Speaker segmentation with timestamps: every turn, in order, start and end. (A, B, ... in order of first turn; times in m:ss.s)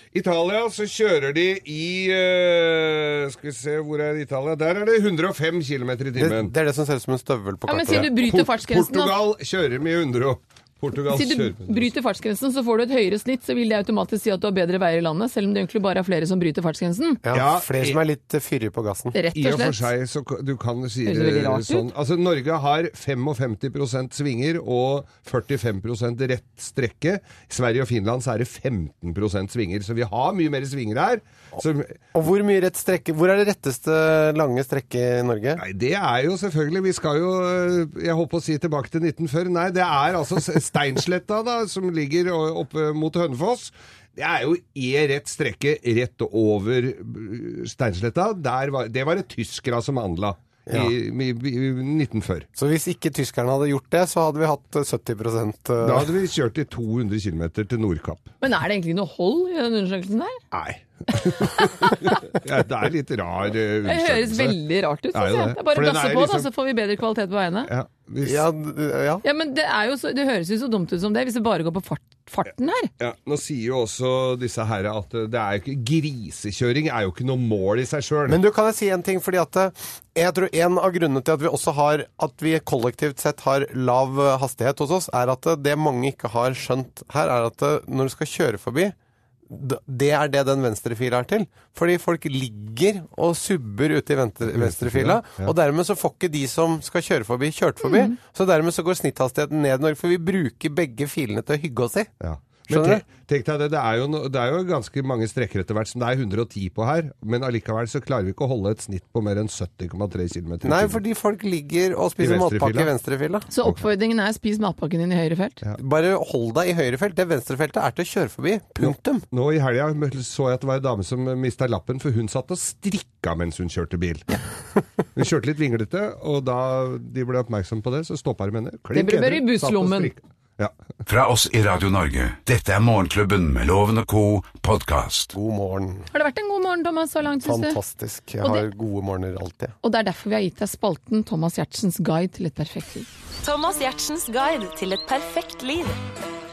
0:00.1-0:06.5 A
0:06.2-0:08.1 B
0:07.7-0:09.2 C
0:07.9-0:11.9 A
0:11.1-0:17.2 C
0:17.2-0:19.2 B
0:17.3-0:18.0 A
0:19.1-0:19.9 C
0:19.4-0:32.0 A
0:21.1-0:21.9 C
0:32.1-0:35.6 B
0:35.6-0:52.5 A
0:50.7-0:50.9 B
0:52.6-0:56.1 B
0:55.8-0:58.3 A
0:58.4-1:00.4 C
1:00.5-1:04.6 A
1:01.6-1:02.1 C
1:03.9-1:07.7 C
1:05.1-1:06.5 A
1:07.7-1:08.5 A
1:08.2-1:09.2 B
1:09.2-1:12.9 C
1:13.0-1:18.4 A
1:18.3-1:29.0 B
1:29.5-1:42.1 B
1:34.6-1:35.5 A
1:37.8-1:38.1 C
1:42.2-1:51.0 A
1:42.7-1:43.0 B
1:50.6-1:53.5 B
1:52.2-1:52.9 A
1:53.5-1:55.6 C
1:55.8-1:59.2 B
1:58.8-2:04.4 A
2:05.2-2:10.7 A
2:08.9-2:10.1 C
2:11.1-2:15.4 D
2:15.3-2:16.1 B
2:16.1-2:17.8 C
2:17.4-2:19.7 B
2:18.4-2:18.7 C
2:19.8-2:23.1 C
2:23.4-2:26.0 E